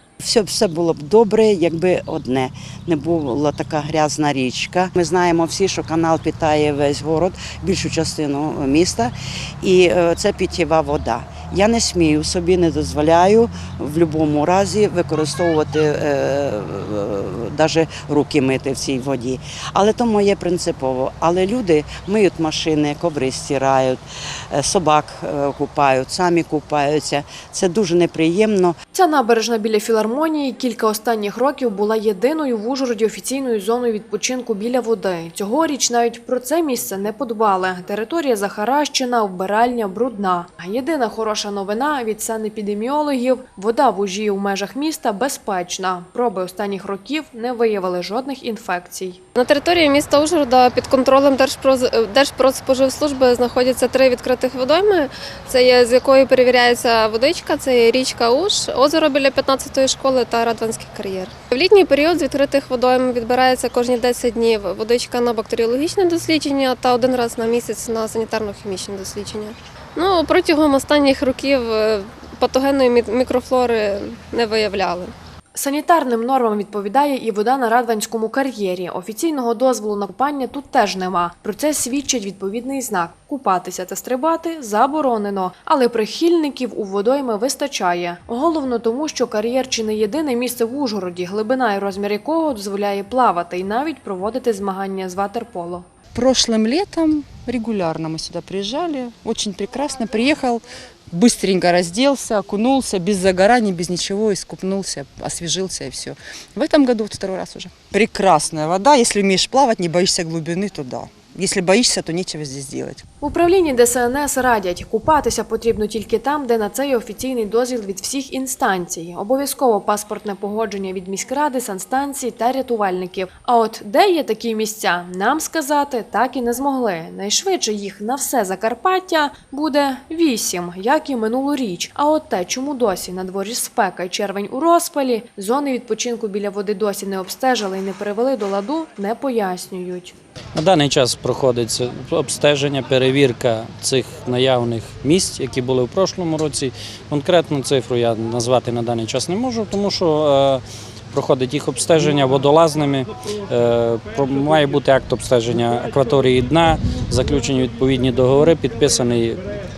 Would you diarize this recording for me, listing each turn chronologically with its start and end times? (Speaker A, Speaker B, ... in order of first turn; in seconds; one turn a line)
Speaker A: 0.2-28.7
Speaker B: 28.9-49.2
Speaker C: 49.4-75.1
Speaker B: 75.5-95.8
Speaker D: 96.1-113.0
Speaker B: 113.2-140.1
Speaker E: 140.5-159.4